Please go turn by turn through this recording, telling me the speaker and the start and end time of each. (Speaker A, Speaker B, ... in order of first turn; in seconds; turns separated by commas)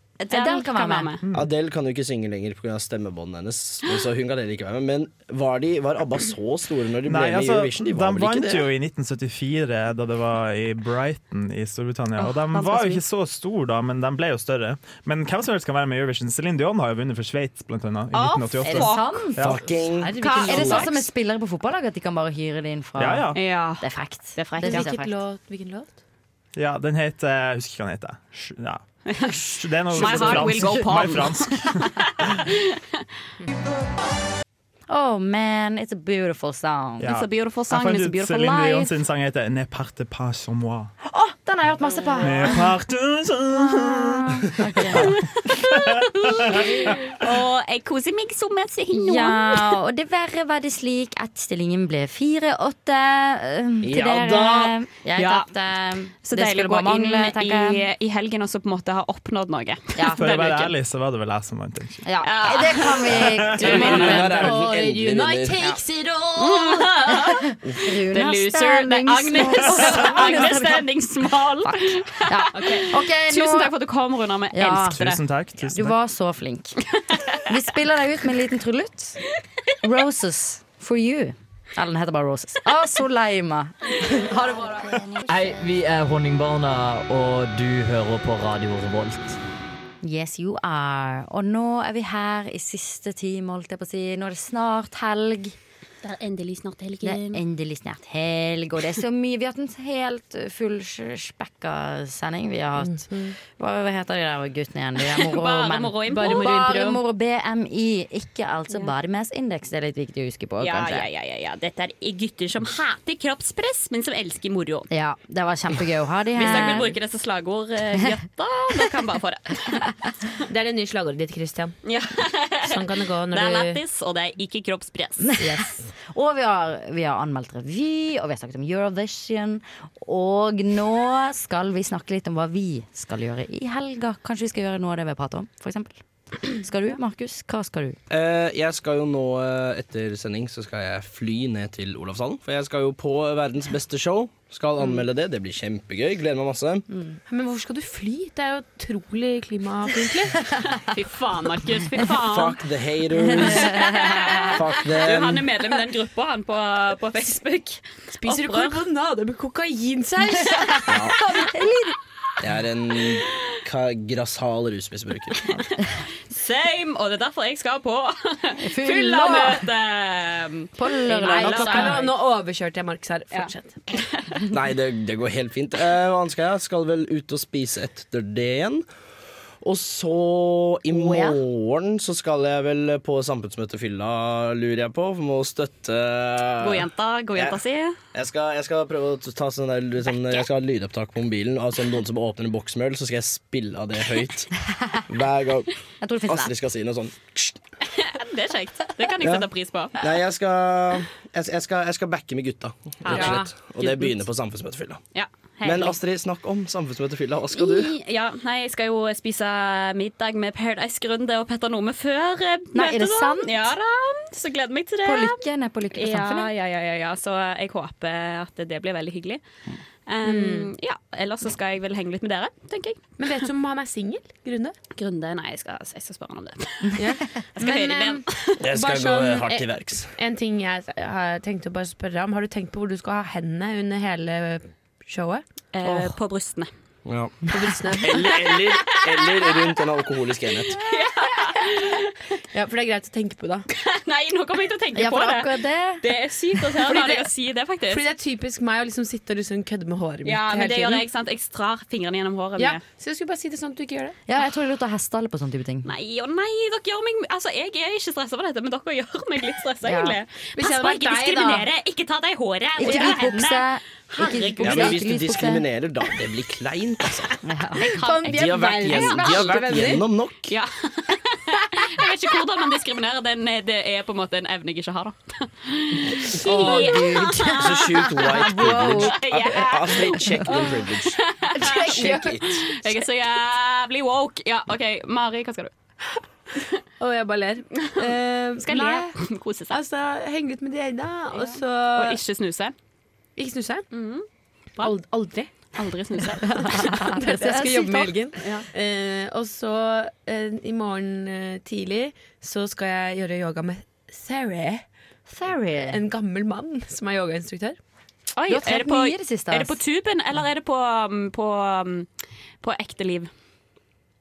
Speaker A: 0.2-1.2, Speaker B: 0.3-1.3, Speaker C: 1.3-8.7, Speaker D: 7.1-19.6, Speaker B: 12.2-13.0, Speaker B: 18.1-19.3, Speaker A: 18.6-19.6, Speaker C: 19.4-20.9, Speaker E: 19.5-21.0, Speaker B: 20.2-21.0, Speaker A: 20.3-25.2, Speaker D: 23.0-23.4, Speaker B: 23.3-24.9, Speaker E: 24.6-25.9, Speaker D: 26.6-28.8, Speaker B: 29.1-32.5, Speaker D: 29.6-31.7, Speaker A: 30.0-31.1, Speaker A: 34.9-37.1, Speaker D: 37.0-40.9, Speaker B: 37.0-38.9, Speaker A: 41.0-42.7, Speaker E: 42.2-42.5, Speaker D: 42.2-44.3, Speaker A: 43.7-45.3, Speaker D: 44.9-45.9, Speaker B: 46.5-49.8, Speaker A: 48.9-57.9, Speaker C: 53.8-54.7, Speaker B: 55.1-55.5, Speaker B: 56.2-60.7, Speaker A: 60.0-60.3, Speaker D: 60.2-62.0, Speaker A: 62.0-64.6, Speaker B: 62.2-64.4, Speaker D: 63.3-63.7, Speaker C: 63.6-65.8, Speaker E: 64.2-66.9, Speaker B: 66.4-67.5, Speaker A: 67.3-73.8, Speaker B: 68.1-75.2, Speaker D: 69.8-70.2, Speaker E: 72.5-72.9, Speaker A: 74.5-75.1, Speaker D: 74.8-75.9, Speaker A: 75.7-76.8, Speaker A: 77.5-79.2, Speaker A: 79.8-85.0, Speaker F: 85.3-89.4, Speaker A: 90.0-95.6, Speaker B: 96.0-97.4, Speaker A: 97.0-111.1, Speaker E: 102.8-103.3, Speaker B: 105.1-106.7, Speaker E: 106.1-107.0, Speaker B: 110.6-114.9, Speaker A: 114.9-117.0, Speaker B: 116.3-119.8, Speaker E: 120.5-121.8, Speaker B: 121.8-125.3, Speaker E: 122.6-123.8, Speaker E: 125.4-125.9, Speaker A: 126.1-138.0, Speaker C: 138.1-146.9, Speaker E: 147.3-150.4, Speaker B: 150.9-152.6, Speaker C: 152.3-153.7, Speaker A: 153.2-154.5, Speaker B: 153.6-158.8, Speaker C: 154.5-155.5, Speaker E: 158.2-161.1, Speaker A: 160.5-161.9, Speaker C: 160.9-161.2, Speaker C: 162.4-165.4, Speaker B: 166.3-172.1, Speaker A: 168.6-169.7, Speaker A: 170.8-172.1, Speaker E: 171.2-174.0, Speaker C: 174.5-178.9, Speaker C: 179.6-187.6, Speaker E: 180.9-181.4, Speaker B: 186.6-188.0, Speaker C: 188.1-194.5, Speaker C: 195.1-195.7, Speaker A: 196.0-196.6, Speaker C: 196.3-197.6, Speaker B: 198.0-200.1, Speaker C: 199.2-205.0, Speaker E: 203.0-203.5, Speaker B: 203.1-204.2, Speaker B: 205.1-206.0, Speaker C: 205.6-207.9, Speaker B: 207.6-215.4, Speaker A: 212.7-213.7, Speaker A: 215.0-216.5, Speaker B: 215.9-219.4, Speaker B: 220.1-223.3, Speaker E: 220.2-220.7, Speaker E: 223.2-224.8, Speaker B: 225.0-227.0, Speaker E: 227.0-236.2, Speaker B: 227.6-228.6, Speaker C: 228.6-230.2, Speaker B: 235.7-236.7, Speaker C: 237.1-237.4, Speaker E: 237.5-238.5, Speaker C: 238.0-240.8, Speaker B: 240.7-242.1, Speaker E: 242.5-243.7, Speaker B: 243.7-248.0, Speaker A: 244.9-246.1, Speaker E: 246.8-247.3, Speaker E: 247.9-251.1, Speaker B: 250.2-252.8, Speaker E: 252.6-254.2, Speaker A: 254.3-255.9, Speaker B: 255.9-265.1, Speaker A: 259.9-260.2, Speaker E: 260.6-261.7, Speaker A: 262.8-265.7, Speaker C: 264.6-267.4, Speaker A: 267.4-269.9, Speaker B: 267.8-269.3, Speaker E: 267.9-270.1, Speaker C: 268.3-270.6, Speaker B: 270.5-280.4, Speaker A: 276.4-279.6, Speaker C: 277.6-281.2, Speaker A: 280.3-280.6, Speaker E: 280.5-280.9, Speaker B: 281.0-285.7, Speaker A: 281.6-282.0, Speaker C: 281.8-282.6, Speaker E: 281.8-282.3, Speaker E: 287.0-289.1, Speaker B: 288.6-289.8, Speaker E: 289.7-292.2, Speaker B: 291.3-292.7, Speaker E: 293.4-293.9, Speaker B: 293.9-294.3, Speaker E: 294.8-295.5, Speaker B: 295.8-296.9, Speaker A: 296.4-298.2, Speaker E: 296.9-304.8, Speaker B: 298.4-298.7, Speaker A: 305.3-306.0, Speaker E: 305.8-307.8, Speaker B: 308.4-312.1, Speaker A: 308.5-309.8, Speaker B: 312.6-313.3